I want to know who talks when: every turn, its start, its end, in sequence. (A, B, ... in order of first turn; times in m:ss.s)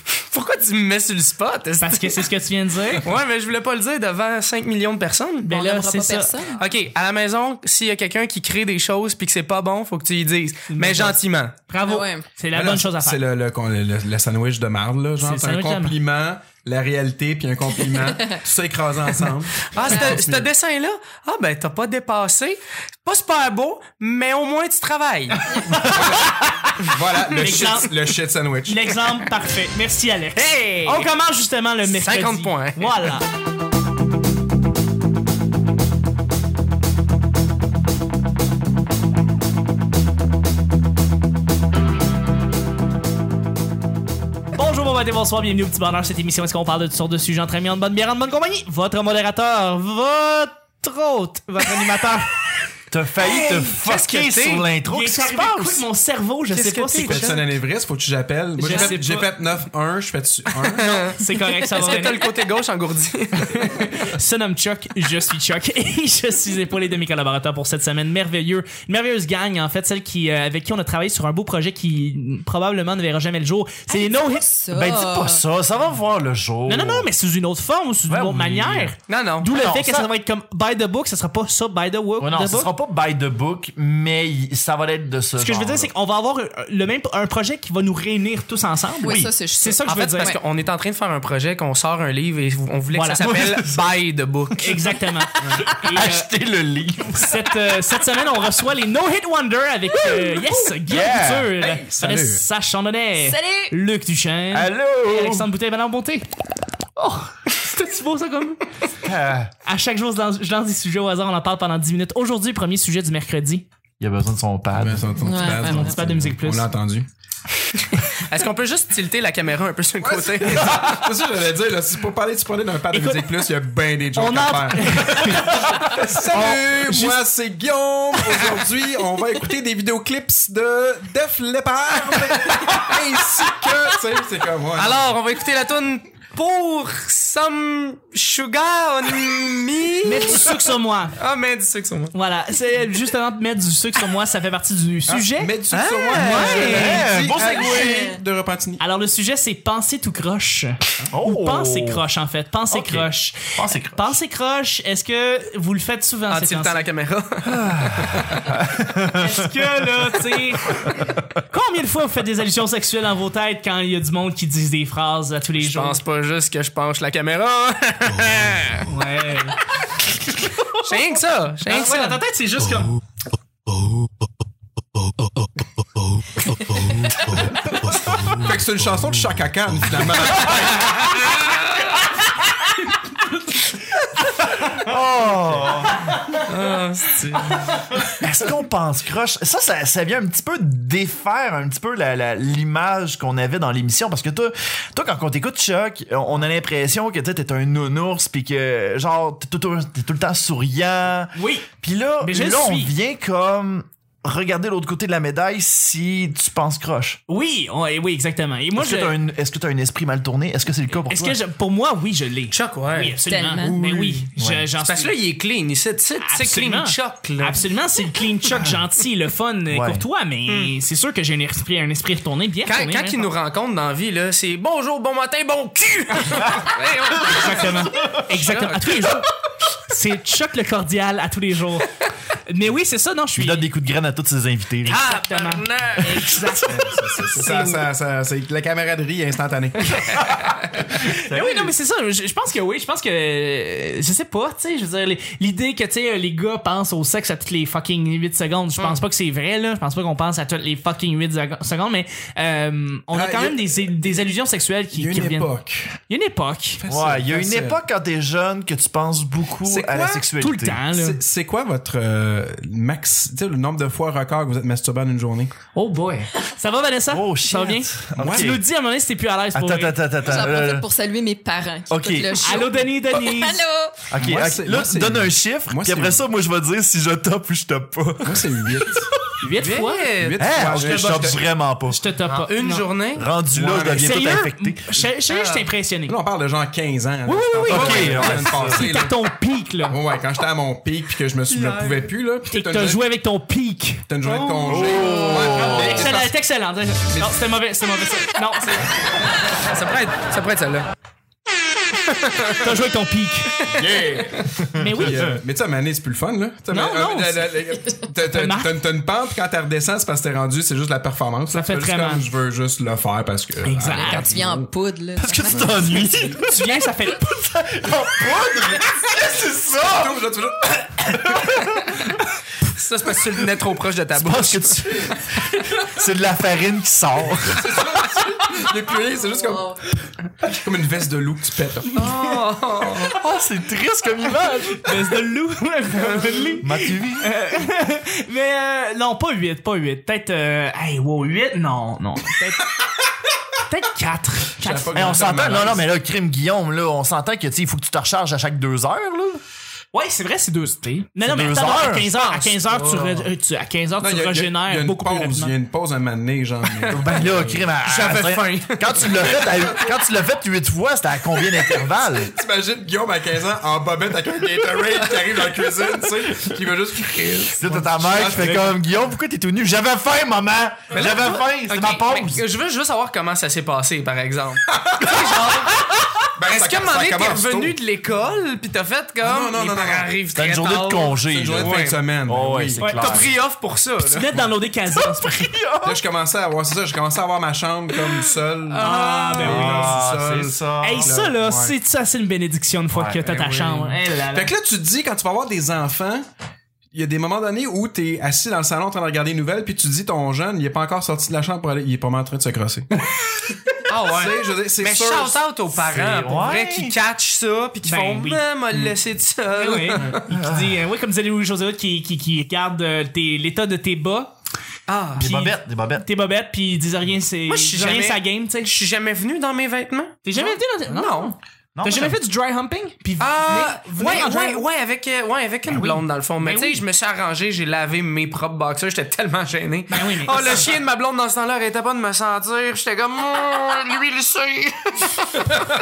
0:00.2-0:02.2 A
0:01.8-0:03.1 B
0:03.0-0:05.5 A
0:05.5-0:06.6 C
0:05.5-0:06.3 B
0:06.6-0:11.5 A
0:10.7-0:13.2 B
0:11.8-0:12.2 C
0:12.5-0:20.5 D
0:15.2-0:16.0 B
0:19.7-0:25.5 A
0:19.9-0:20.2 C
0:25.6-0:26.7 B
0:25.7-0:29.0 D
0:27.2-0:27.7 A
0:27.3-0:27.9 B
0:28.6-0:33.3 B
0:30.4-0:31.1 A
0:31.8-0:33.1 A
0:44.5-0:52.4 B
0:52.9-0:55.8 E
0:53.4-0:54.6 A
0:54.9-0:57.4 B
0:56.5-0:57.4 A
0:57.0-1:01.2 D
0:58.6-0:59.3 B
1:00.6-1:03.7 A
1:01.2-1:02.2 B
1:03.4-1:14.4 B
1:13.9-1:15.4 C
1:14.7-1:17.1 E
1:16.7-1:22.7 B
1:18.1-1:18.9 E
1:19.1-1:19.5 A
1:19.5-1:20.1 E
1:22.2-1:25.9 E
1:25.4-1:30.3 B
1:29.0-1:30.4 C
1:29.8-1:34.9 A
1:32.9-1:33.3 B
1:33.2-1:33.8 E
1:34.6-1:36.3 B
1:35.4-1:35.8 D
1:35.6-1:37.4 E
1:37.1-1:46.3 B
1:40.9-1:41.8 E
1:41.8-1:42.4 D
1:43.2-1:43.7 C
1:44.5-1:45.5 E
1:47.0-1:48.6 B
1:49.0-1:49.5 E
1:49.6-1:53.6 B
1:54.0-1:55.8 E
1:54.8-1:57.1 D
1:55.2-1:56.0 C
1:55.6-1:56.7 B
1:58.2-2:00.9 A
2:00.0-2:15.1 D
2:02.9-2:03.4 B
2:04.1-2:05.8 B
2:06.3-2:07.2 B
2:14.8-2:20.6 A
2:20.0-2:21.2 B
2:21.2-2:22.1 A
2:22.1-2:25.5 B
2:25.1-2:28.8 D
2:25.7-2:26.9 A
2:26.1-2:27.0 B
2:26.5-2:27.9 E
2:26.8-2:28.2 C
2:28.8-2:36.8 B
2:31.1-2:32.0 E
2:32.7-2:34.2 E
2:36.3-2:37.6 A
2:37.5-2:39.5 E
2:39.1-2:46.0 B
2:45.6-2:48.9 A
2:48.9-2:49.6 B
2:50.5-2:50.9 B
2:50.8-2:52.2 A
2:51.6-2:52.9 B
2:58.2-3:01.2 D
3:04.6-3:06.1 E
3:06.4-3:07.7 A
3:08.1-3:27.2 E
3:21.3-3:21.7 B
3:22.2-3:22.9 B
3:27.3-3:29.2 B
3:28.8-3:31.4 E
3:31.1-3:35.1 B
3:32.5-3:34.2 A
3:33.3-3:34.0 C
3:34.4-3:34.6 E
3:34.8-3:37.6 A
3:36.2-3:43.3 B
3:39.7-3:40.0 E
3:40.5-3:40.7 A
3:42.6-3:49.2 A
3:47.1-3:49.3 B
3:49.9-3:51.9 B
3:52.5-3:53.7 B
3:53.3-3:55.0 E
3:54.8-3:56.6 A
3:54.9-3:57.8 B
3:56.6-4:00.3 D
4:00.8-4:16.8 B
4:01.0-4:01.7 E
4:13.1-4:13.8 D
4:14.9-4:16.0 D
4:16.8-4:17.8 D
4:16.9-4:20.8 E
4:19.6-4:20.2 D
4:20.4-4:21.2 B
4:20.9-4:25.5 D
4:25.7-4:30.0 B
4:27.1-4:28.6 E
4:28.2-4:28.5 D
4:29.5-4:30.8 E
4:30.2-4:34.1 C
4:31.9-4:32.6 E
4:32.4-4:33.6 B
4:34.1-4:38.9 E
4:34.2-4:36.2 D
4:38.2-4:39.1 D
4:39.4-4:40.1 B
4:39.6-4:41.3 A
4:40.2-4:41.4 D
4:40.4-4:42.0 E
4:41.9-4:42.8 B
4:42.3-4:43.3 A
4:43.2-4:45.0 E
4:43.5-4:44.0 D
4:43.7-4:46.2 B
4:45.3-4:45.7 A
4:46.1-4:49.2 D
4:47.2-4:50.0 B
4:47.6-4:48.8 E
4:49.9-4:53.0 D
4:51.5-4:52.0 A
4:52.5-4:58.9 B
4:54.1-4:56.4 D
4:54.6-4:56.1 E
4:57.1-4:57.4 D
4:59.6-5:00.9 A
5:02.1-5:02.6 A
5:02.6-5:03.5 B
5:03.7-5:14.6 D
5:04.7-5:05.3 B
5:06.7-5:07.6 B
5:08.3-5:08.7 B
5:11.5-5:12.2 B
5:13.6-5:14.4 B
5:14.0-5:16.1 C
5:15.2-5:20.2 E
5:15.5-5:16.4 D
5:16.4-5:17.3 B
5:19.8-5:21.4 D
5:21.1-5:22.0 E
5:22.7-5:24.8 A
5:24.1-5:27.8 E
5:27.5-5:29.8 D
5:30.4-5:32.1 D
5:31.9-5:33.2 A
5:33.1-5:35.0 E
5:34.8-5:42.8 B
5:36.0-5:36.5 A
5:36.6-5:37.4 E
5:43.6-5:45.3 B
5:44.6-5:45.9 D
5:44.9-5:49.4 E
5:49.9-5:55.5 B
5:51.2-5:52.1 E
5:52.1-5:53.3 A
5:54.0-5:57.7 D
5:56.9-6:02.3 E
5:57.8-5:59.6 A
6:02.2-6:08.7 D
6:07.6-6:12.4 E
6:10.9-6:22.0 A
6:14.7-6:15.0 D
6:16.4-6:17.8 D
6:19.2-6:20.1 D
6:20.3-6:23.3 E
6:21.2-6:22.9 D
6:22.8-6:23.2 B
6:22.9-6:24.3 A
6:24.0-6:25.5 B
6:25.0-6:26.0 E
6:25.8-6:31.7 D
6:28.7-6:29.7 A
6:28.8-6:30.0 B
6:29.4-6:31.2 E
6:30.8-6:34.5 B
6:32.9-6:33.2 E
6:33.2-6:36.2 D
6:36.9-6:42.9 D
6:43.8-6:50.2 A
6:44.0-6:45.4 D
6:45.9-6:47.0 E
6:47.8-6:48.4 B
6:49.5-6:54.3 B
6:50.2-6:50.8 E
6:54.9-6:55.4 A
6:55.2-6:56.1 E
6:55.2-6:58.7 B
6:57.5-7:01.3 A
7:00.2-7:04.6 B
7:01.7-7:02.2 E
7:03.2-7:15.5 A
7:05.7-7:06.8 B
7:09.9-7:10.6 B